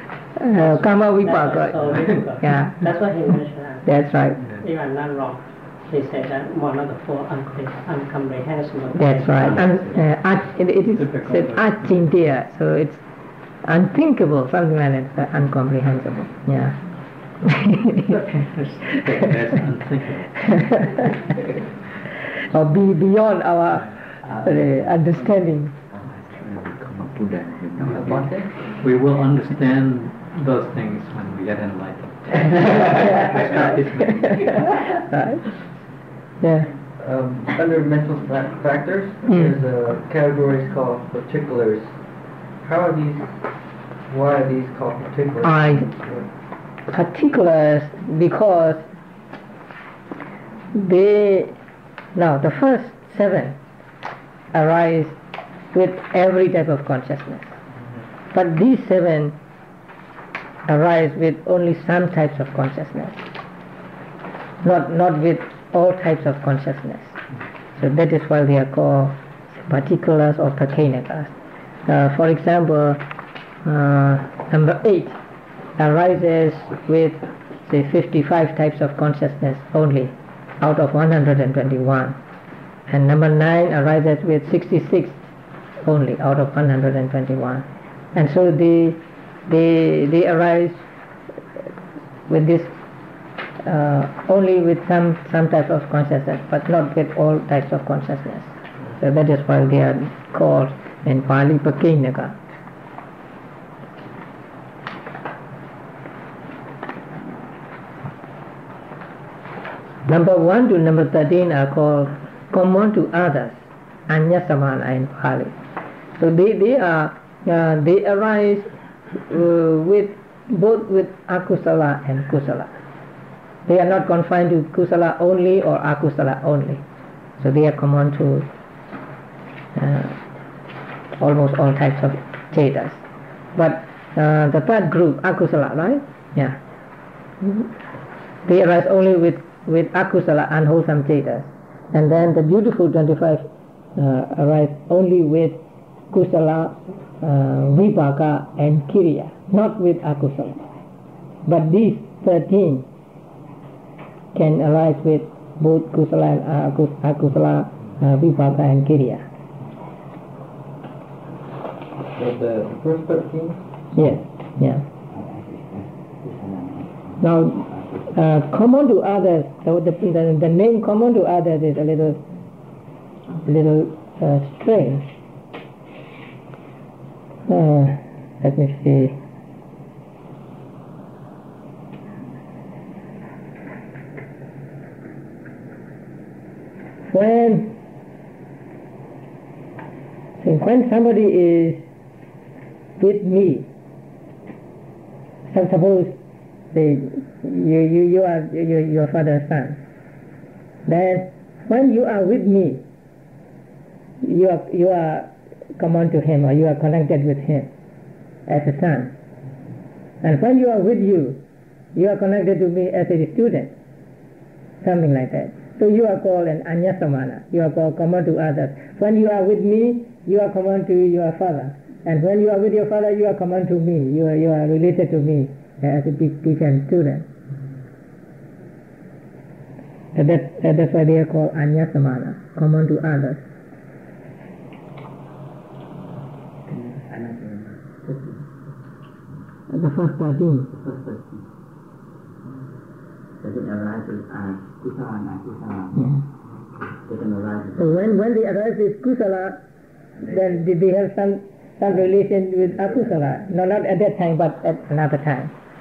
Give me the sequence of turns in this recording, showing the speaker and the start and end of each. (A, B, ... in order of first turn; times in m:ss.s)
0:00.4-0:02.9 A
0:00.5-0:03.9 B
0:01.8-0:02.2 C
0:03.8-0:04.4 A
0:04.6-0:10.0 B
0:08.9-0:13.0 A
0:11.0-0:11.7 C
0:13.6-0:16.8 A
0:17.5-0:18.0 A
0:18.1-0:20.5 C
0:20.5-0:20.9 A
0:22.5-0:25.8 A
0:26.4-0:28.2 D
0:27.8-0:28.7 E
0:28.6-0:34.6 C
0:33.0-0:35.5 A
0:36.4-0:36.7 A
0:37.0-0:42.0 E
0:39.3-0:39.5 A
0:42.6-0:43.3 E
0:44.1-0:46.3 E
0:45.4-0:45.9 A
0:46.9-0:48.9 A
0:50.7-0:51.6 A
0:52.2-0:53.6 A
0:54.5-0:55.2 A
0:55.7-0:57.5 A
0:58.3-0:59.4 A
1:00.7-1:03.2 A
1:04.6-1:07.2 A
1:07.8-1:11.3 A
1:11.8-1:13.0 A
1:13.6-1:15.2 A
1:15.8-1:22.2 A
1:22.9-1:25.2 A
1:25.8-1:30.8 A
1:32.3-1:32.7 A
1:33.6-1:42.4 A
1:50.1-1:55.6 A
1:56.2-2:02.7 A
2:03.7-2:06.8 A
2:07.4-2:08.5 A
2:09.8-2:10.2 A
2:11.2-2:13.0 A
2:13.6-2:16.6 A
2:17.4-2:17.7 A
2:18.4-2:25.6 A
2:26.1-2:30.7 A
2:31.4-2:32.8 A
2:34.3-2:39.2 A
2:42.2-2:43.6 E
2:43.9-2:44.8 A
2:45.1-2:47.2 D
2:47.2-2:52.2 A
2:53.4-2:55.1 A
2:57.5-2:59.2 A
3:07.0-3:07.8 A
3:10.4-3:11.8 A
3:13.0-3:13.7 A
3:15.5-3:16.1 A
3:16.7-3:19.8 A
3:20.9-3:22.8 A
3:24.2-3:27.7 A
3:28.5-3:29.1 A
3:30.2-3:31.4 A
3:32.0-3:33.7 A
3:34.8-3:47.2 A
3:50.2-3:53.4 A
3:57.0-3:58.2 D
3:59.7-4:00.7 A
4:00.8-4:01.4 D
4:03.4-4:06.0 D
4:06.0-4:06.2 A
4:07.1-4:07.8 D
4:07.8-4:09.6 A
4:10.2-4:15.5 A